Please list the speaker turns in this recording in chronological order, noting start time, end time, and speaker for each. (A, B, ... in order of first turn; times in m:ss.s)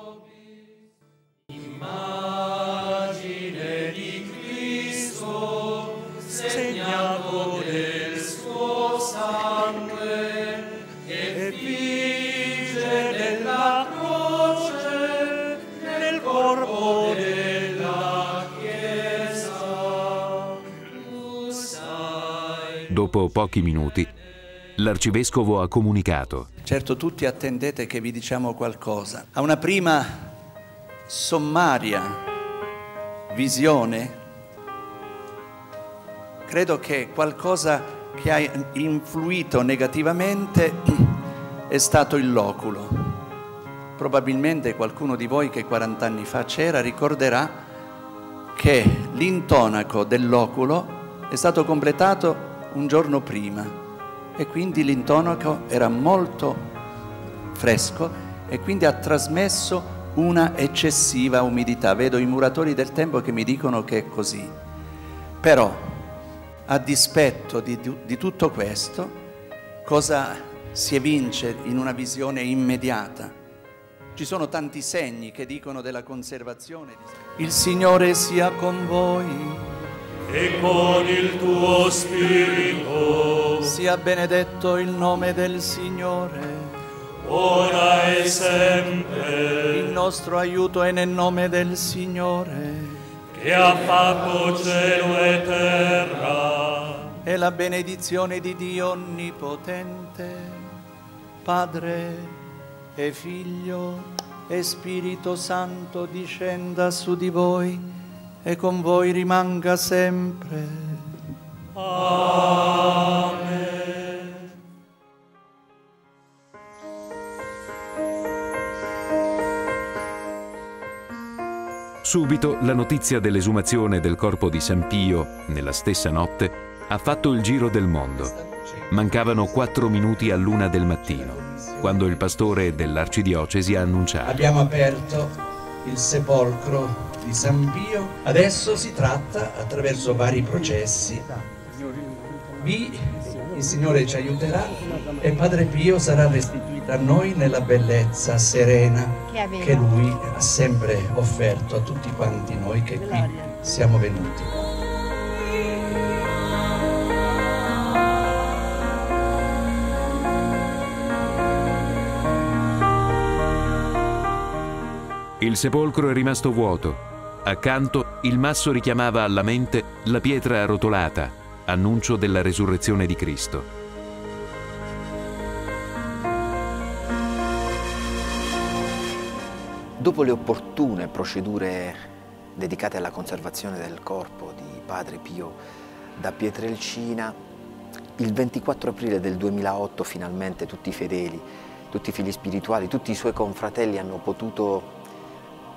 0:06.4-0:09.6 A
0:11.3-0:14.8 A
0:15.5-0:17.9 A
0:22.9-0:24.1 B
0:24.8-0:26.5 B
0:26.6-0:30.3 C
0:31.1-0:32.2 C
0:33.3-0:34.2 C
0:36.4-0:43.2 C
0:44.0-0:47.6 C
0:48.5-0:53.8 C
0:54.4-0:56.6 C
0:57.5-1:04.5 C
1:05.4-1:06.1 C
1:06.7-1:09.2 C
1:09.8-1:13.3 C
1:14.1-1:19.8 C
1:20.3-1:23.4 A
1:23.6-1:26.8 C
1:27.3-1:29.1 A
1:28.8-1:33.0 C
1:33.4-1:37.0 A
1:37.2-1:40.7 C
1:41.4-1:42.4 C
1:42.9-1:47.9 C
1:48.4-1:51.2 C
1:52.0-1:52.3 A
2:02.0-2:08.3 B
2:08.2-2:09.0 C
2:08.9-2:14.4 B
2:11.2-2:12.2 C
2:14.2-2:21.4 C
2:22.6-2:34.7 C
2:45.4-2:53.7 B
3:00.0-3:02.0 D
3:02.6-3:05.6 D
3:06.2-3:07.4 D
3:08.2-3:15.0 D